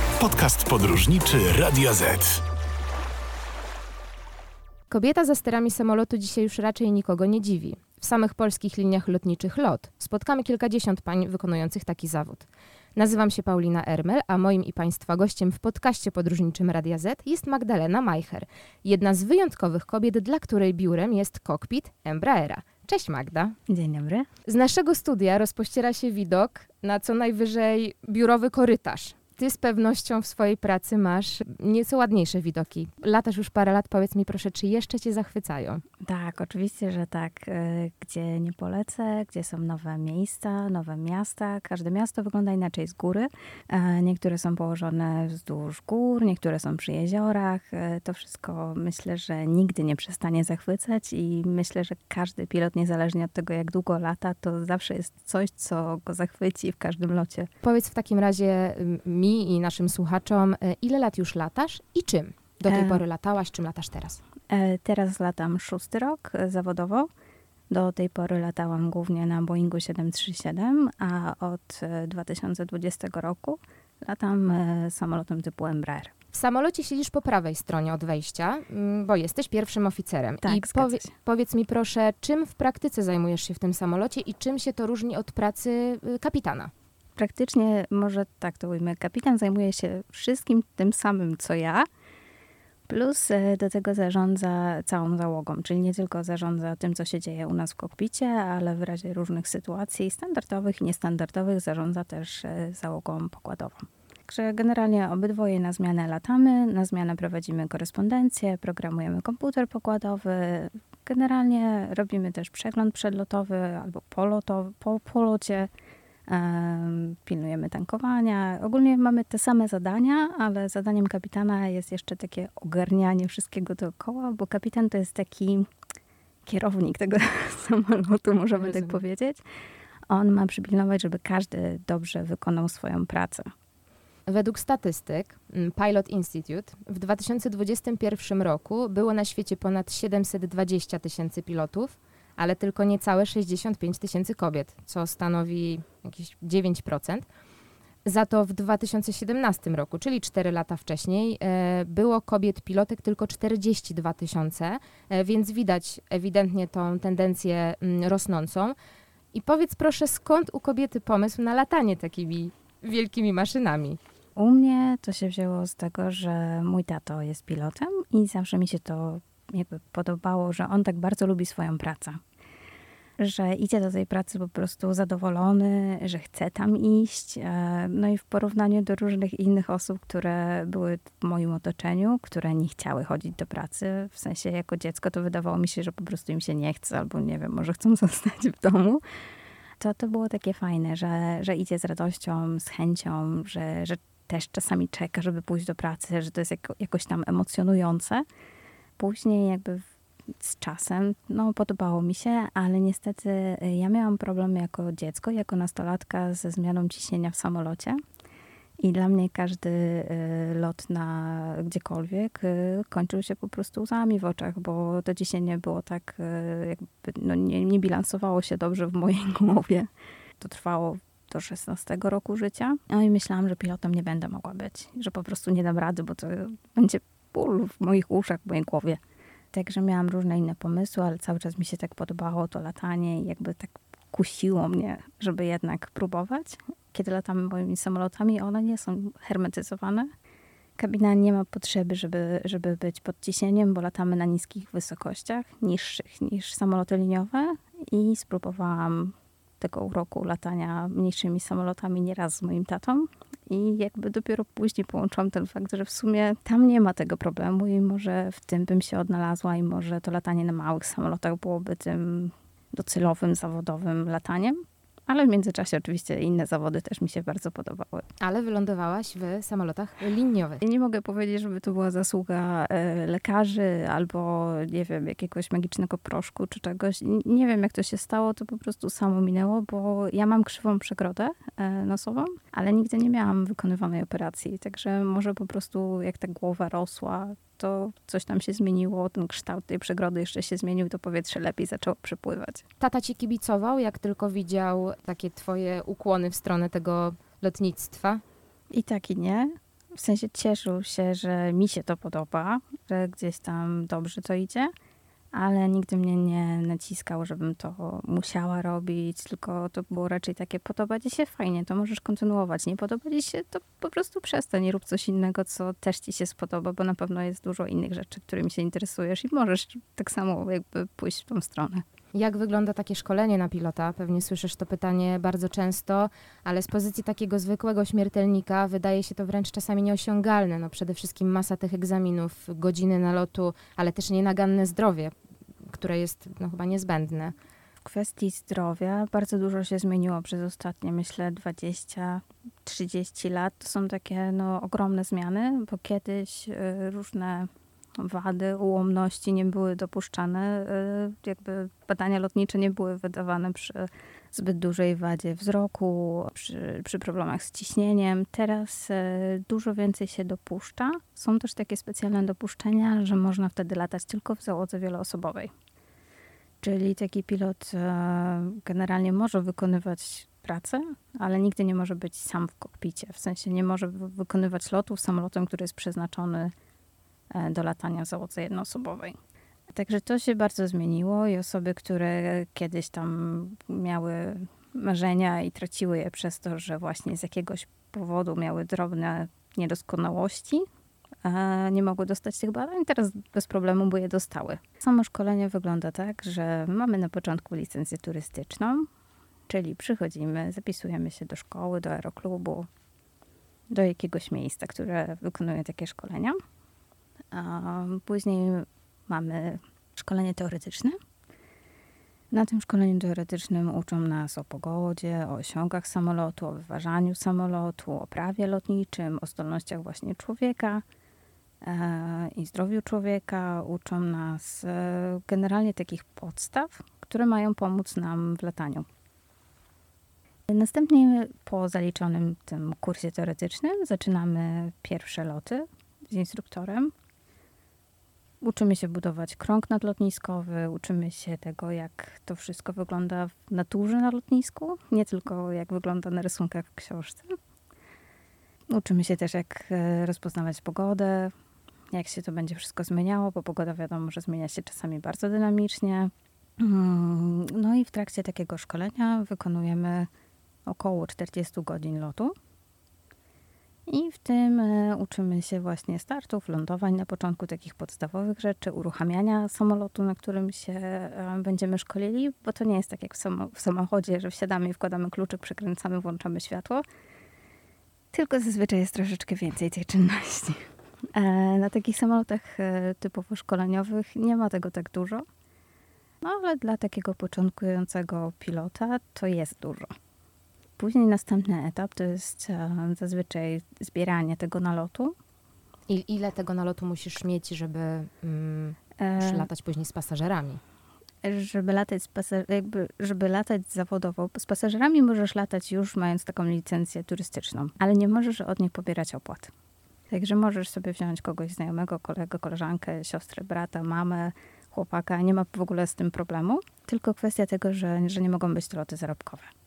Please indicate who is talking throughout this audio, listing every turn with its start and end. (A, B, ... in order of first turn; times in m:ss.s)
0:00.2-0:02.4 A
0:04.9-0:23.6 B
0:23.7-0:24.3 C
0:24.4-0:35.8 B
0:36.0-0:57.5 C
0:57.6-1:04.2 B
1:02.7-1:03.0 C
1:04.5-1:07.1 C
1:07.7-1:16.1 C
1:16.3-1:26.7 B
1:20.4-1:21.1 C
1:27.2-1:31.9 C
1:32.9-1:55.7 C
1:56.3-2:05.7 C
2:06.4-2:09.4 C
2:08.6-2:09.0 B
2:10.1-2:13.5 C
2:14.3-2:27.3 B
2:28.0-2:38.7 B
2:39.3-2:44.0 B
2:44.4-2:52.2 C
2:53.2-3:09.0 C
3:09.8-3:18.2 C
3:19.0-3:28.0 C
3:28.8-3:39.9 C
3:40.4-3:49.0 C
3:49.5-4:00.1 C
4:00.8-4:28.0 C
4:28.2-4:30.6 B
4:30.6-4:52.6 C
4:52.8-4:58.2 B
4:58.7-5:04.7 C
5:05.3-5:21.8 C
5:22.1-5:35.1 B
5:35.7-5:37.3 B
5:37.8-6:05.5 C
6:06.6-6:16.5 C
6:17.3-6:19.2 C
6:19.7-6:30.6 C
6:31.2-6:38.9 C
6:39.5-6:42.7 C
6:43.7-6:46.4 C
6:47.3-6:51.0 C
6:52.3-7:00.8 C
7:01.6-7:08.9 C
7:10.5-7:16.9 C
7:18.4-7:27.3 C
7:28.7-7:31.3 C
7:31.9-7:40.1 C
7:40.6-7:42.3 C
7:43.9-7:56.8 C
7:58.1-8:05.2 C
8:06.2-8:09.9 C
8:10.8-8:15.1 C
8:15.9-8:20.6 B
8:19.0-8:19.5 C
8:21.2-8:29.5 C
8:30.1-8:39.5 C